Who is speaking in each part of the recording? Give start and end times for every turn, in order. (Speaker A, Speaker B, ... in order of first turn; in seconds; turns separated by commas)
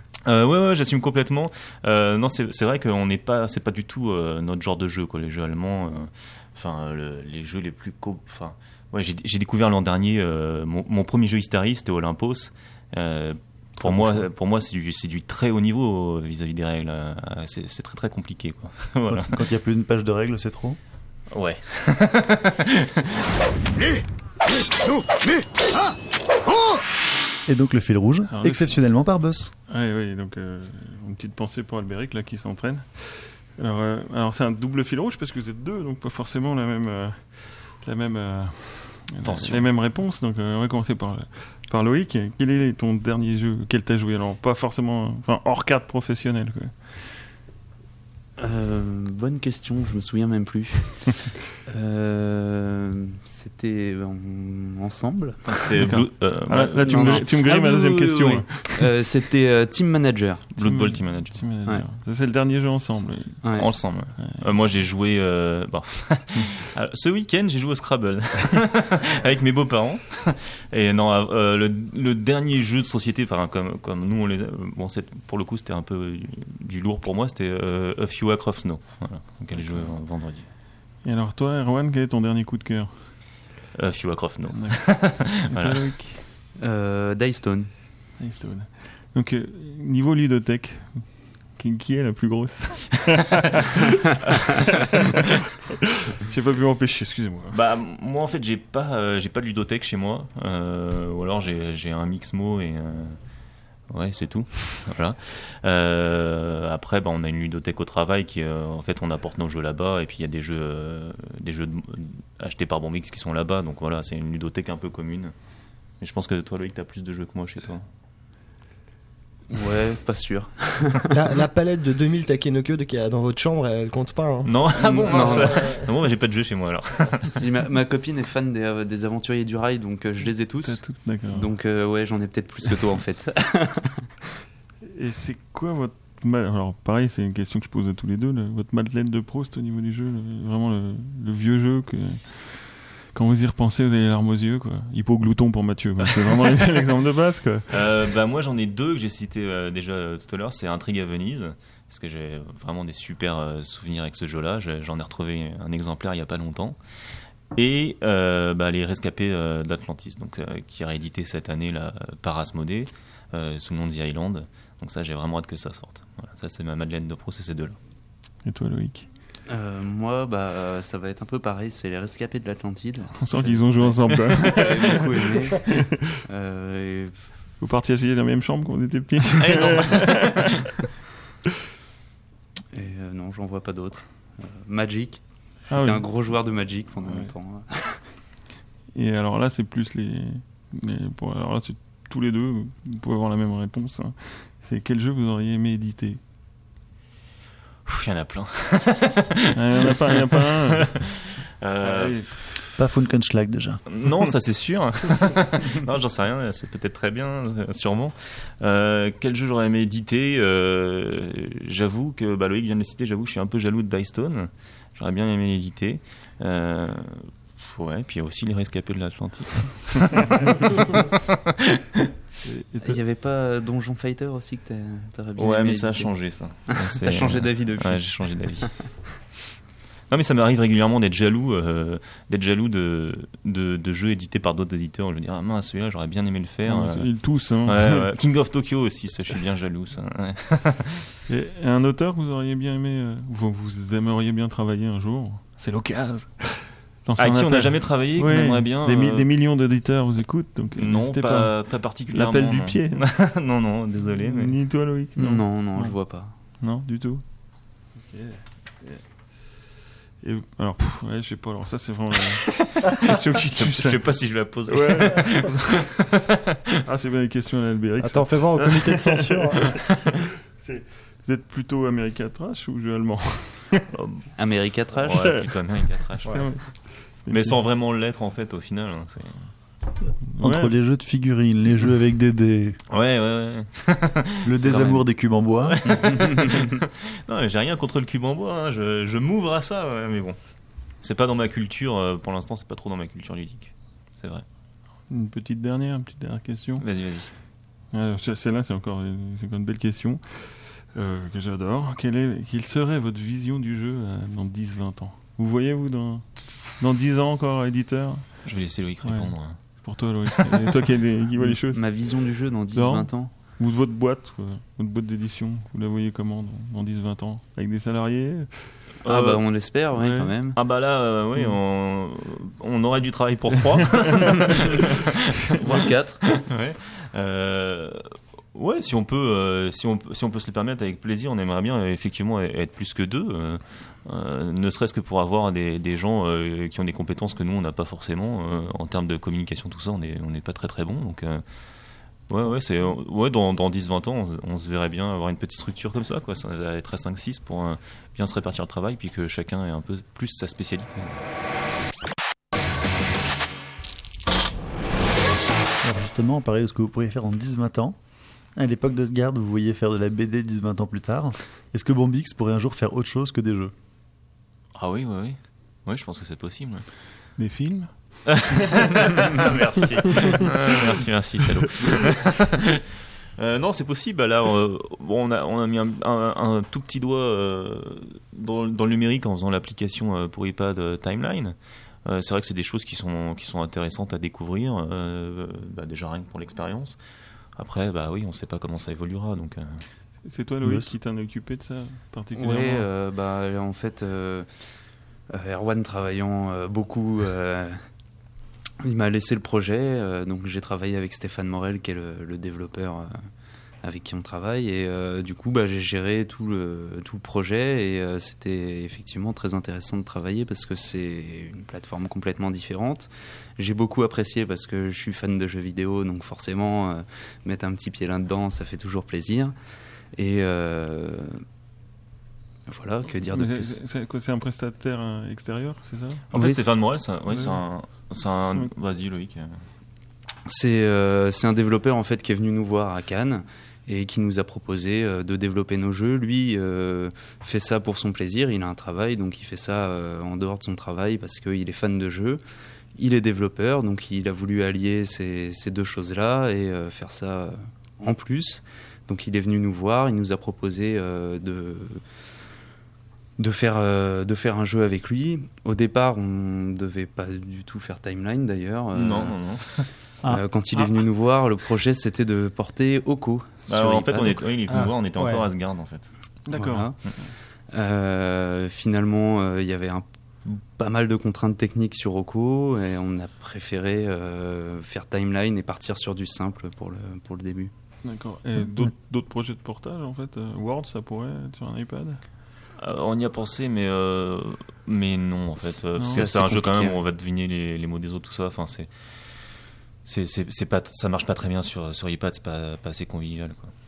Speaker A: 0.2-19.4, Speaker B: 13.8-14.3, Speaker B: 19.1-20.8, Speaker A: 21.3-22.8, Speaker B: 27.4-29.5, Speaker C: 28.3-47.0, Speaker A: 39.2-39.6, Speaker D: 48.4-55.7, Speaker A: 55.4-57.6, Speaker C: 55.8-58.9, Speaker D: 56.8-60.5, Speaker C: 60.5-64.8, Speaker A: 60.5-61.5, Speaker D: 63.4-63.7, Speaker A: 63.5-80.5, Speaker C: 79.5-80.0, Speaker C: 81.0-83.1, Speaker A: 83.7-85.8, Speaker C: 84.5-86.2, Speaker D: 86.6-87.7, Speaker C: 88.2-93.2, Speaker C: 96.3-97.6, Speaker A: 97.5-103.2, Speaker A: 103.9-115.3, Speaker A: 116.0-117.9, Speaker D: 119.5-121.1, Speaker E: 121.1-124.5, Speaker A: 124.4-127.4, Speaker D: 124.8-125.7, Speaker E: 125.1-125.8, Speaker D: 127.3-134.0, Speaker C: 130.6-131.5, Speaker C: 134.9-147.7, Speaker A: 147.7-156.8, Speaker A: 157.5-167.8, Speaker C: 168.4-169.1, Speaker D: 169.5-177.3, Speaker C: 173.2-176.2, Speaker C: 177.6-180.5, Speaker A: 179.4-180.5, Speaker D: 182.7-188.1, Speaker C: 185.7-187.3, Speaker C: 188.9-196.2, Speaker A: 197.8-202.8, Speaker C: 199.5-200.9, Speaker C: 201.8-202.4, Speaker B: 202.8-203.8, Speaker A: 203.9-221.3, Speaker C: 222.4-223.0, Speaker D: 222.8-226.2, Speaker A: 225.4-229.1, Speaker D: 226.7-228.9, Speaker A: 230.1-241.1, Speaker C: 236.7-238.1, Speaker C: 241.3-253.1, Speaker A: 247.2-249.3, Speaker A: 250.7-254.6, Speaker C: 254.1-255.4, Speaker D: 255.2-256.4, Speaker B: 255.2-255.9, Speaker C: 256.6-259.3, Speaker C: 260.2-265.8, Speaker A: 262.5-266.2, Speaker C: 266.9-269.9, Speaker E: 268.0-269.6, Speaker C: 270.5-273.9, Speaker A: 273.9-274.3, Speaker D: 274.4-275.3, Speaker A: 274.9-279.5, Speaker C: 275.2-275.4, Speaker C: 276.3-277.6, Speaker C: 280.3-280.7, Speaker B: 280.4-282.8, Speaker A: 282.9-284.5, Speaker B: 284.4-286.1, Speaker D: 284.6-285.0, Speaker A: 285.6-290.4, Speaker D: 286.0-286.6, Speaker A: 290.9-294.4, Speaker C: 295.1-296.8, Speaker A: 296.8-297.3, Speaker C: 297.9-312.0, Speaker A: 308.4-310.5, Speaker D: 311.4-313.4, Speaker C: 312.7-318.9, Speaker A: 319.0-319.4, Speaker D: 319.1-320.6, Speaker C: 319.9-320.3, Speaker A: 320.5-341.4, Speaker D: 325.6-326.4, Speaker A: 342.3-351.2, Speaker B: 355.8-358.0, Speaker B: 358.6-363.7, Speaker A: 364.8-366.9, Speaker C: 367.3-368.5, Speaker A: 368.3-372.8, Speaker C: 370.1-370.5, Speaker A: 373.4-387.0, Speaker A: 387.6-389.8, Speaker C: 390.2-392.9, Speaker B: 390.6-390.9, Speaker D: 392.3-394.5, Speaker D: 395.3-397.8, Speaker D: 398.8-403.1, Speaker D: 403.8-419.6, Speaker D: 420.1-421.4, Speaker D: 422.7-423.8, Speaker C: 423.3-426.3, Speaker D: 426.3-426.7, Speaker A: 426.3-429.6, Speaker C: 427.3-428.7, Speaker D: 430.5-442.4, Speaker D: 442.9-452.0, Speaker D: 453.4-459.4, Speaker A: 458.9-459.9, Speaker D: 460.3-464.4, Speaker A: 463.7-466.1, Speaker E: 464.7-465.5, Speaker C: 466.4-467.3, Speaker D: 466.5-477.7, Speaker C: 478.0-482.2, Speaker B: 478.6-478.9, Speaker A: 482.8-488.9, Speaker D: 485.6-487.0, Speaker C: 485.9-486.2, Speaker A: 490.1-493.7